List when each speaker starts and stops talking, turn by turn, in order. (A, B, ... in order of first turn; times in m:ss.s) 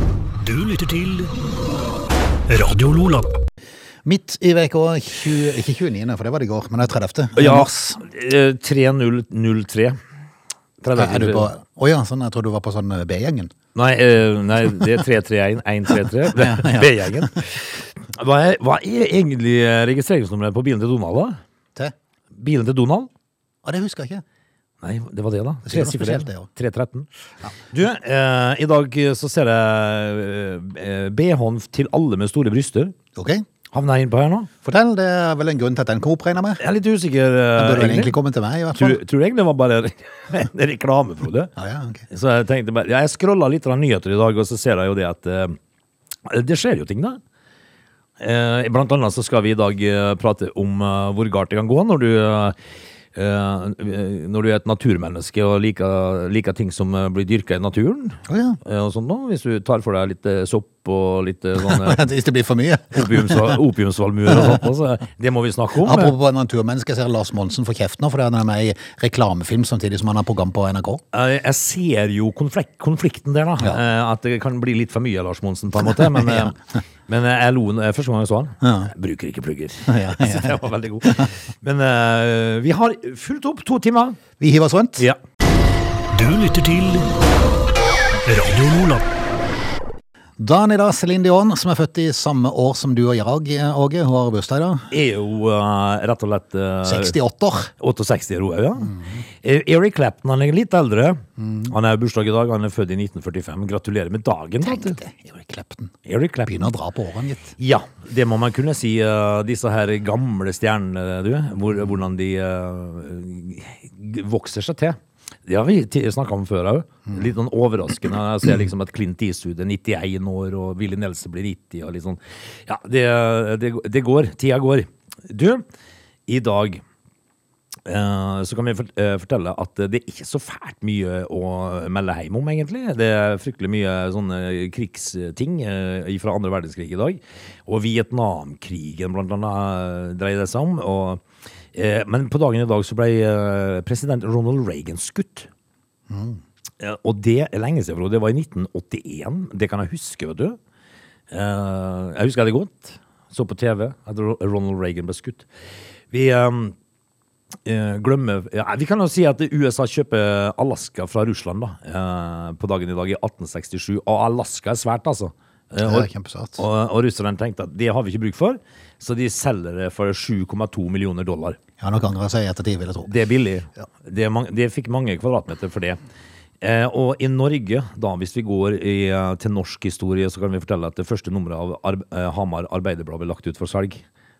0:00.4-0:01.3 A
0:02.5-0:03.3 A
0:04.0-0:08.0 B
0:07.4-0:10.0 C
0:10.8-0:11.5 C
0:10.9-0:13.5 B
0:13.7-0:21.4 C
0:16.3-0:17.4 B
0:22.4-0:23.1 C
0:23.6-0:24.2 B
0:24.8-0:27.1 C
0:25.6-0:26.5 B
0:27.7-0:32.9 C
0:33.2-0:33.4 B
0:33.7-0:34.5 C
0:34.6-0:36.6 B
0:36.6-0:38.1 C
0:37.6-0:39.0 B
0:38.8-0:41.5 C
0:41.6-0:42.0 B
0:42.1-0:45.6 C
0:46.2-0:47.2 C
0:48.2-0:52.6 C
0:53.1-1:02.0 C
0:58.3-0:58.6 B
1:01.6-1:03.6 B
1:02.9-1:06.1 C
1:04.3-1:04.6 B
1:05.8-1:11.0 B
1:11.1-1:16.6 C
1:15.9-1:16.5 B
1:17.1-1:24.2 C
1:18.6-1:18.9 B
1:19.8-1:21.3 B
1:24.4-1:25.0 B
1:26.1-1:27.1 A
1:28.2-1:29.0 A
1:30.4-1:34.9 B
1:34.9-1:37.2 C
1:36.8-1:37.7 B
1:37.8-1:44.9 C
1:38.9-1:39.2 B
1:41.4-1:41.7 B
1:44.6-1:45.9 B
1:46.0-1:46.7 C
1:46.4-1:47.5 B
1:47.6-2:05.6 C
2:06.3-2:06.8 C
2:07.8-2:21.2 C
2:21.7-2:25.5 C
2:26.1-2:26.4 B
2:26.8-2:30.6 C
2:31.3-2:35.4 C
2:36.1-2:36.7 C
2:37.6-2:51.6 C
2:45.8-2:46.6 B
2:51.8-2:53.1 B
2:53.0-2:56.0 C
2:56.6-3:04.0 C